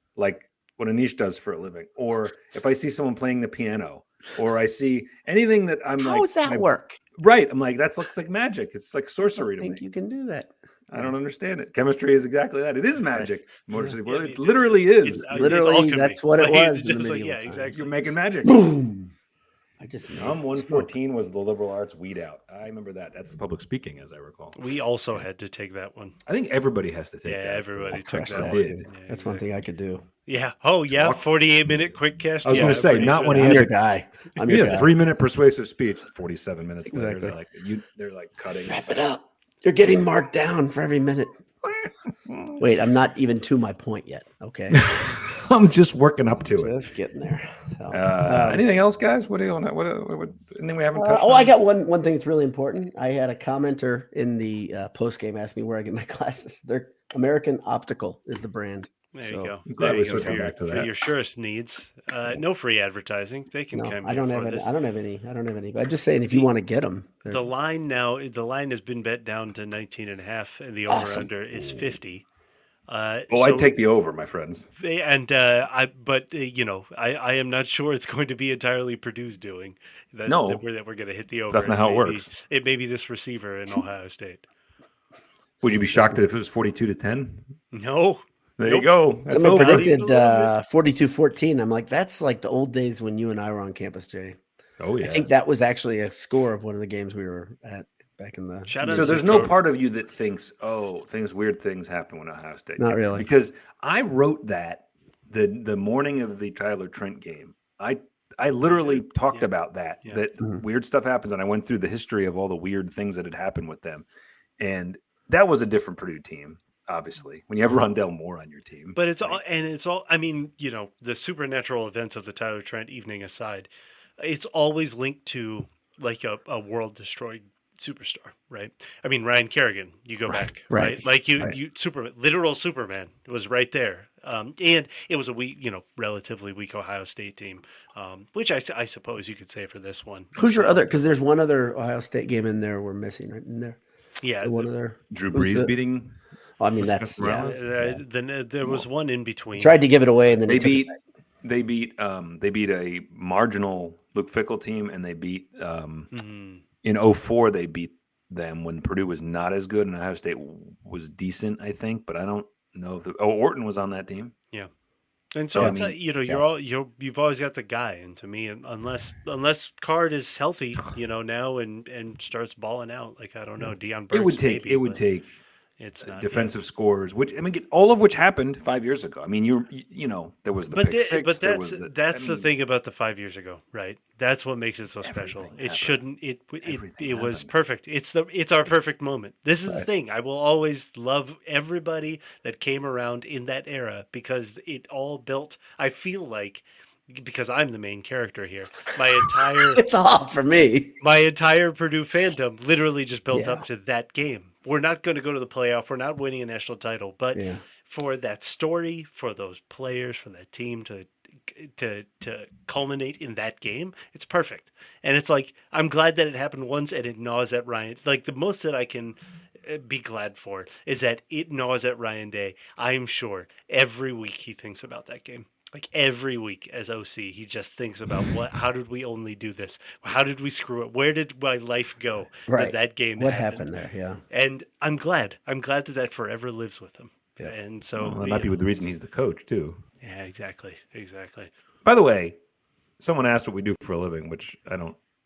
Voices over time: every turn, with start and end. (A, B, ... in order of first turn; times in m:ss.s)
0:00.2-0:09.8 A
0:06.0-0:07.0 B
0:09.6-0:11.1 B
0:10.9-0:15.6 A
0:13.2-0:14.0 B
0:14.0-0:18.0 C
0:15.2-0:17.7 B
0:17.7-0:18.7 A
0:18.4-0:19.1 B
0:19.8-0:20.9 B
0:20.1-0:24.6 A
0:24.6-0:26.2 C
0:26.3-0:28.9 A
0:27.2-0:29.5 C
0:27.9-0:30.0 B
0:30.3-0:33.7 C
0:30.9-0:31.2 A
0:32.4-0:33.7 A
0:33.3-0:34.9 B
0:34.4-0:34.8 C
0:34.5-0:38.8 A
0:36.9-0:37.3 B
0:38.7-0:41.3 B
0:41.6-0:42.6 A
0:42.6-0:44.8 B
0:44.7-0:46.7 A
0:46.6-0:48.6 B
0:47.9-0:51.5 A
0:51.0-0:59.6 B
0:59.1-1:04.7 C
0:59.7-1:00.9 A
1:03.7-1:07.4 B
1:07.3-1:12.2 C
1:10.9-1:11.3 B
1:12.9-1:13.8 C
1:13.3-1:14.7 A
1:14.8-1:24.5 C
1:20.3-1:20.6 A
1:21.5-1:22.3 A
1:25.6-1:27.4 A
1:27.7-1:30.5 C
1:28.6-1:29.9 A
1:29.3-1:34.4 B
1:34.8-1:35.3 A
1:35.0-1:39.5 B
1:38.7-1:39.6 C
1:38.9-1:54.1 A
1:42.8-1:43.3 B
1:48.7-1:49.4 C
1:54.6-1:59.4 A
1:59.0-2:20.8 C
2:10.3-2:11.6 B
2:20.4-2:23.8 B
2:24.2-2:24.7 C
2:24.4-2:25.7 B
2:25.1-2:26.2 A
2:26.6-2:28.0 B
2:26.8-2:27.6 A
2:27.3-2:29.8 C
2:29.6-2:30.9 B
2:30.5-2:36.1 A
2:36.1-2:36.6 C
2:36.8-2:44.3 A
2:45.4-2:55.0 C
2:45.5-2:46.0 A
2:45.6-2:46.4 B
2:54.1-2:55.3 A
2:55.8-2:56.5 C
2:56.0-3:02.5 A
3:00.7-3:19.8 C
3:05.0-3:06.0 A
3:06.6-3:07.5 A
3:19.7-3:21.0 B
3:21.0-3:53.7 C
3:23.3-3:23.6 B
3:27.4-3:27.6 B
3:52.5-3:54.2 B
3:54.3-3:58.5 C
3:58.0-3:59.8 A
4:00.0-4:01.5 C
4:01.8-4:02.4 A
4:03.0-4:05.0 A